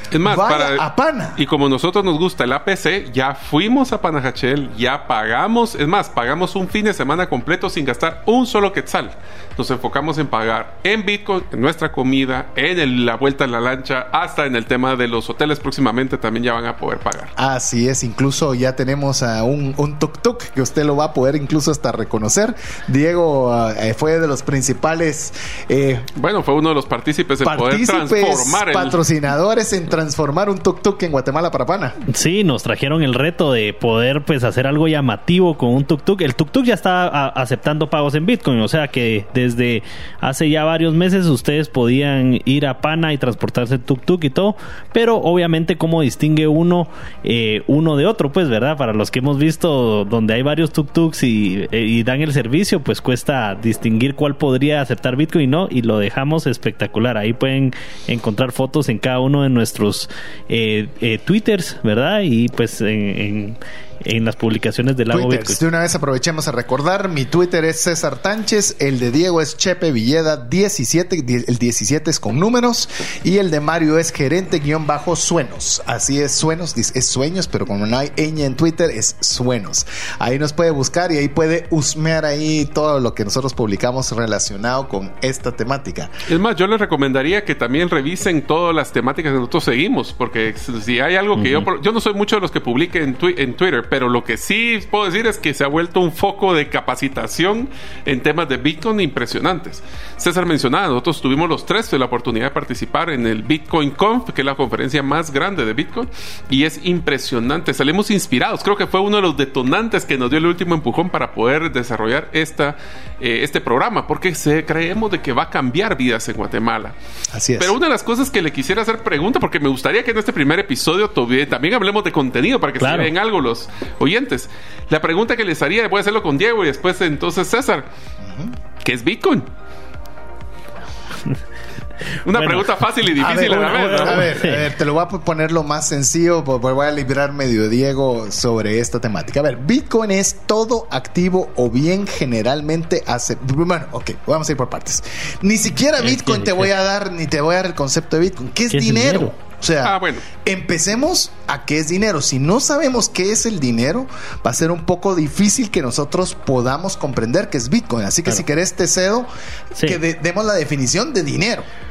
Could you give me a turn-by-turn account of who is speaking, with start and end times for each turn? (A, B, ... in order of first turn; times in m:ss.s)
0:00.1-0:00.8 A
0:00.2-0:01.4 B
0:01.4-0:17.3 A
0:17.4-0:26.1 B
0:26.2-0:29.0 A
0:27.4-0:32.0 B
0:32.1-1:05.6 C
1:05.1-1:26.1 B
1:26.3-1:57.0 A
1:31.4-1:31.7 C
1:57.3-1:57.7 B
1:57.6-2:07.8 A
2:02.8-2:03.1 C
2:08.2-2:08.5 B
2:08.8-2:09.5 A
2:12.2-2:14.3 A
2:12.3-2:12.7 C
2:13.2-2:39.3 B
2:13.2-2:14.7 C
2:26.0-2:26.7 C
2:28.7-2:29.3 C
2:29.8-2:30.2 A
2:39.7-2:40.0 C
2:39.8-2:41.7 B